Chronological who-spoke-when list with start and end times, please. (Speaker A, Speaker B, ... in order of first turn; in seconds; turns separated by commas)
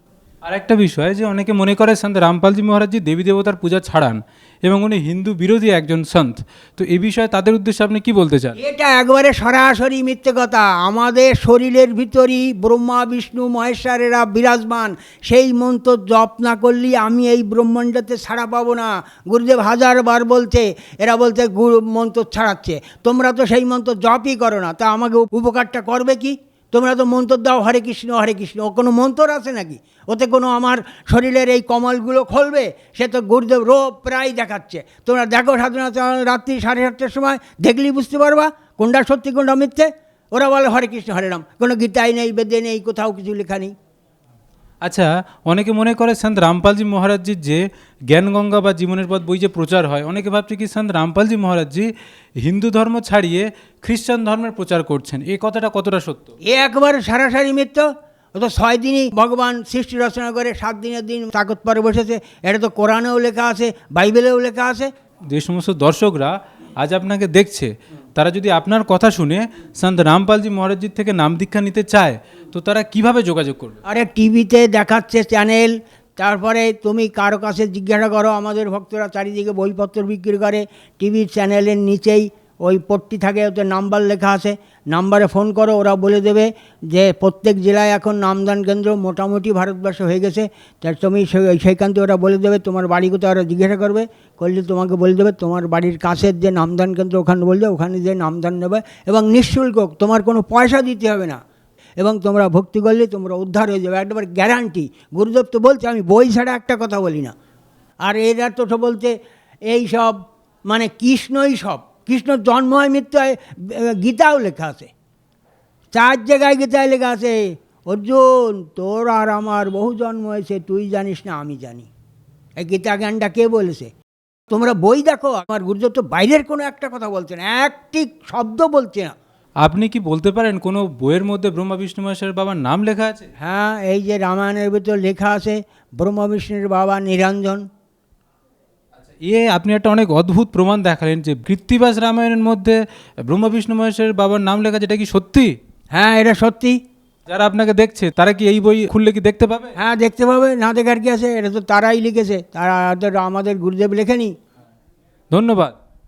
Speaker A: 0.5-8.5, Speaker B: 8.6-43.7, Speaker A: 44.9-51.9, Speaker A: 52.4-56.3, Speaker B: 56.4-64.9, Speaker A: 65.3-73.8, Speaker B: 73.9-101.4, Speaker B: 102.0-107.3, Speaker B: 108.0-109.2, Speaker B: 109.7-114.9, Speaker B: 115.9-121.9, Speaker B: 122.6-123.9, Speaker B: 124.5-129.1, Speaker A: 129.6-133.2, Speaker B: 133.4-137.7, Speaker A: 139.2-145.5, Speaker B: 145.9-146.8, Speaker A: 147.3-149.7, Speaker B: 149.8-154.3, Speaker A: 155.3-155.8